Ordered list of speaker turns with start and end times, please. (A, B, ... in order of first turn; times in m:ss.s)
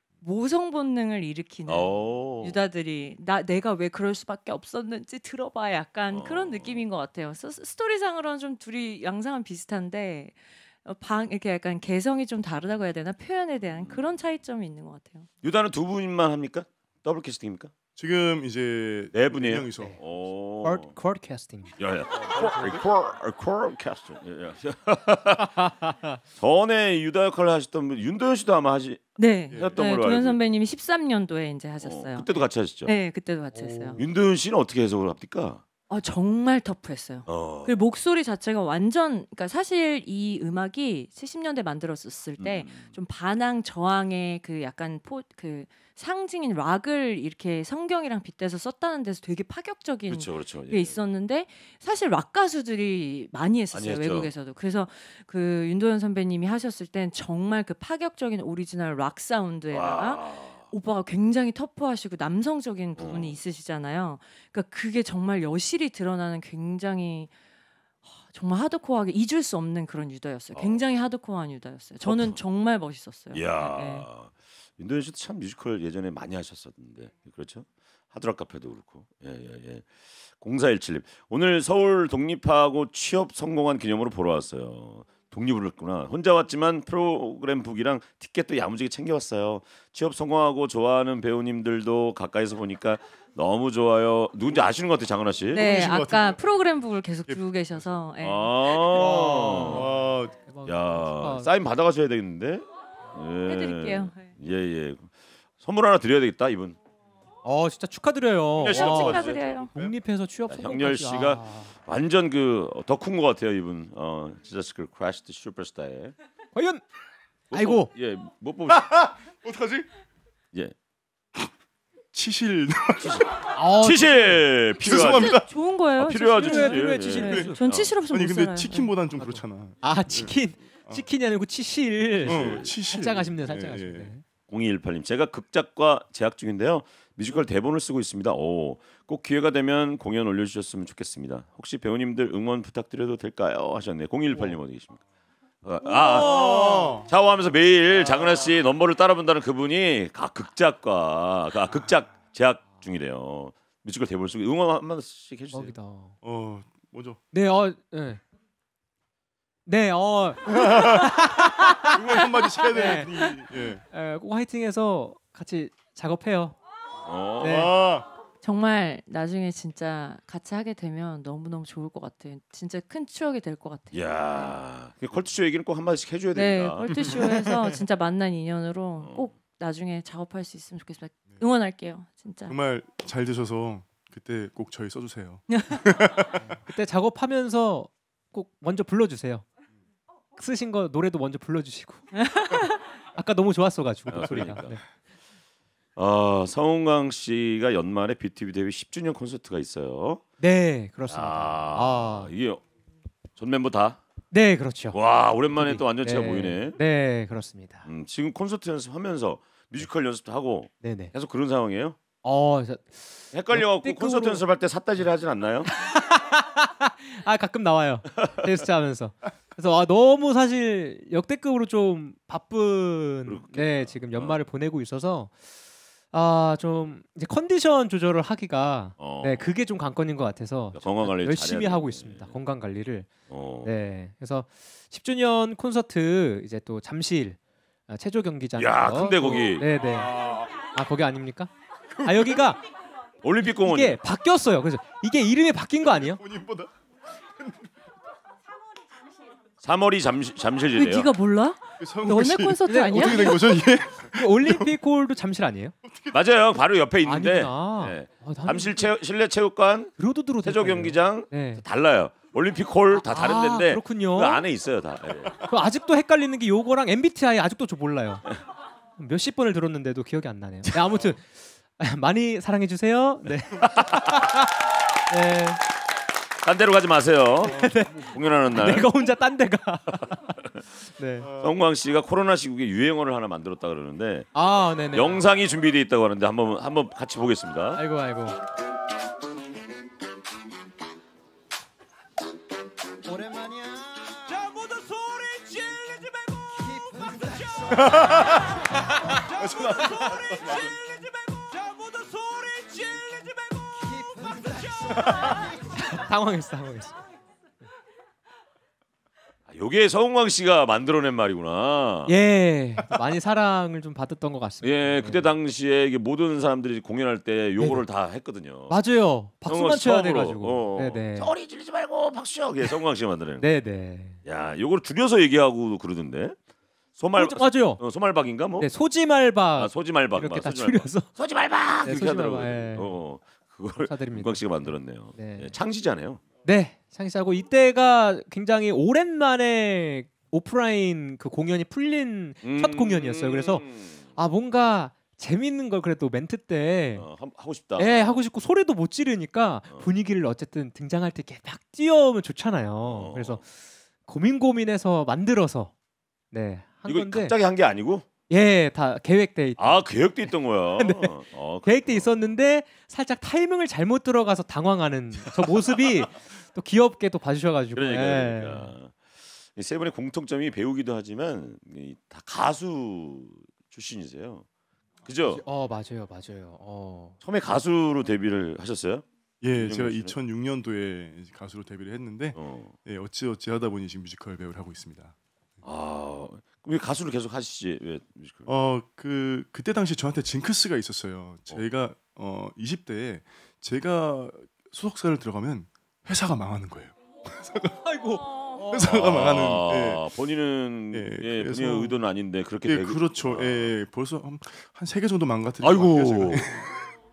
0:00.2-0:15.3 A
0:01.7-0:02.6 B
0:06.1-0:06.8 B
0:13.8-0:14.1 B
0:15.4-0:17.7 B
0:18.0-0:20.0 C
0:19.1-0:21.0 B
0:20.6-0:21.7 D
0:21.8-0:25.5 B
0:22.3-0:22.7 C
0:25.4-0:26.2 D
0:26.4-0:30.4 B
0:29.2-0:32.3 A
0:29.5-0:29.8 C
0:31.8-0:32.9 B
0:32.8-0:34.0 A
0:33.5-0:34.0 D
0:34.0-0:35.6 B
0:35.9-1:07.3 A
0:37.2-0:37.8 B
0:42.4-0:42.9 B
0:50.1-0:50.9 B
0:53.7-0:54.3 B
0:59.7-1:00.6 B
1:03.0-1:03.4 B
1:08.2-1:14.1 A
1:10.5-1:10.8 B
1:12.0-1:12.4 B
1:13.3-1:19.9 B
1:20.4-1:35.7 B
1:35.5-1:36.4 C
1:35.5-1:38.7 A
1:38.2-1:39.9 B
1:38.9-1:41.5 D
1:39.7-1:40.4 C
1:40.6-1:46.8 B
1:43.5-1:44.2 A
1:47.4-1:51.7 D
1:48.6-1:49.7 B
1:48.6-1:49.7 A
1:50.5-1:56.1 B
1:56.5-1:56.8 D
1:57.5-1:59.0 B
1:57.5-1:57.9 D
1:58.7-1:59.9 C
2:02.1-2:03.5 C
2:03.0-2:05.4 B
2:03.5-2:04.4 D
2:04.8-2:05.5 C
2:05.1-2:08.9 A
2:06.0-2:07.9 B
2:06.1-2:07.6 D
2:07.2-2:07.5 C
2:08.1-2:11.0 C
2:09.2-2:14.2 D
2:12.2-2:12.7 B
2:12.2-2:14.1 C
2:14.5-2:25.0 B
2:25.6-2:35.7 B
2:25.8-2:27.1 C
2:26.1-2:26.5 D
2:35.5-2:36.1 D
2:36.2-2:37.2 C
2:37.3-2:38.2 D
2:39.6-2:43.3 D
2:40.5-2:41.2 C
2:41.8-2:43.8 C
2:43.9-2:46.6 D
2:47.0-2:47.7 B
2:47.4-2:47.7 D
2:47.4-2:48.1 C
2:48.4-2:54.2 A
2:53.9-2:56.9 B
2:56.3-3:02.5 A
2:56.9-2:57.6 C
3:02.5-3:06.6 C
3:05.5-3:05.8 A
3:06.4-3:09.4 D
3:10.4-3:12.2 D
3:12.2-3:12.7 A
3:13.1-3:14.8 D
3:14.1-3:14.8 B
3:16.0-3:20.2 B
3:20.4-3:22.3 D
3:21.1-3:22.6 B
3:23.4-3:24.0 B
3:24.3-3:25.0 D
3:24.9-3:26.8 B
3:25.5-3:27.8 D
3:27.8-3:32.0 B
3:30.8-3:31.1 D
3:32.2-3:34.4 D
3:33.3-3:35.7 B
3:35.6-3:45.3 D
3:38.2-3:38.6 B
3:43.2-3:44.4 B
3:46.1-4:00.1 D
3:49.0-3:49.5 B
3:50.7-3:52.4 B
3:53.3-3:53.7 B
3:58.6-3:59.7 B
3:59.8-4:00.6 C
4:00.7-4:01.5 D
4:01.9-4:02.5 C
4:02.0-4:02.6 D
4:03.2-4:04.0 B
4:03.4-4:06.2 D
4:05.8-4:06.7 C
4:07.4-4:07.7 C
4:09.6-4:11.1 B
4:10.8-4:13.4 A
4:11.8-4:14.8 C
4:12.7-4:13.5 D
4:14.1-4:15.7 D
4:15.8-4:16.2 C
4:16.1-4:25.4 B
4:17.0-4:18.9 D
4:20.0-4:21.6 D
4:23.0-4:24.4 D
4:25.5-4:28.2 D
4:29.0-4:35.6 D
4:33.6-4:34.2 B
4:36.4-4:38.9 B
4:37.4-4:40.2 D
4:41.0-4:41.3 D
4:41.2-4:41.5 C
4:41.4-4:44.3 B
4:44.3-4:45.2 D
4:44.9-4:47.8 B
4:47.8-4:48.4 D
4:53.3-4:58.5 E
4:57.7-4:58.5 C
4:59.1-5:05.0 E
4:59.4-5:00.6 C
5:05.0-5:05.2 C
5:05.7-5:07.0 D
5:09.5-5:12.1 B
5:12.1-5:15.3 D
5:14.6-5:18.8 B
5:17.6-5:17.8 D
5:18.7-5:21.3 D
5:19.4-5:23.5 B
5:23.4-5:24.2 D
5:24.2-5:26.4 B
5:27.0-5:28.7 B
5:27.2-5:27.8 D
5:28.6-5:31.1 D
5:29.6-5:36.2 B
5:31.8-5:32.9 D
5:33.9-5:35.5 D
5:36.4-5:43.6 D
5:42.4-5:44.0 B
5:44.2-5:47.1 D
5:46.9-5:48.2 B
5:47.8-5:53.5 D
5:52.8-5:53.4 B
5:54.0-5:55.7 D
5:56.3-5:57.3 D
5:56.8-5:58.0 B
5:58.3-5:59.8 D
5:59.6-6:02.2 B
6:00.8-6:01.1 D
6:01.6-6:08.7 D
6:07.7-6:14.4 B
6:15.0-6:15.4 B
6:15.4-6:17.2 D
6:17.2-6:20.2 B
6:19.4-6:25.1 C
6:22.3-6:22.7 B
6:25.6-6:28.5 B
6:28.5-6:37.8 C
6:37.8-6:38.8 D
6:38.7-6:40.0 C
6:38.8-6:43.7 B
6:40.9-6:42.0 C
6:42.6-6:46.7 C
6:45.6-6:46.5 B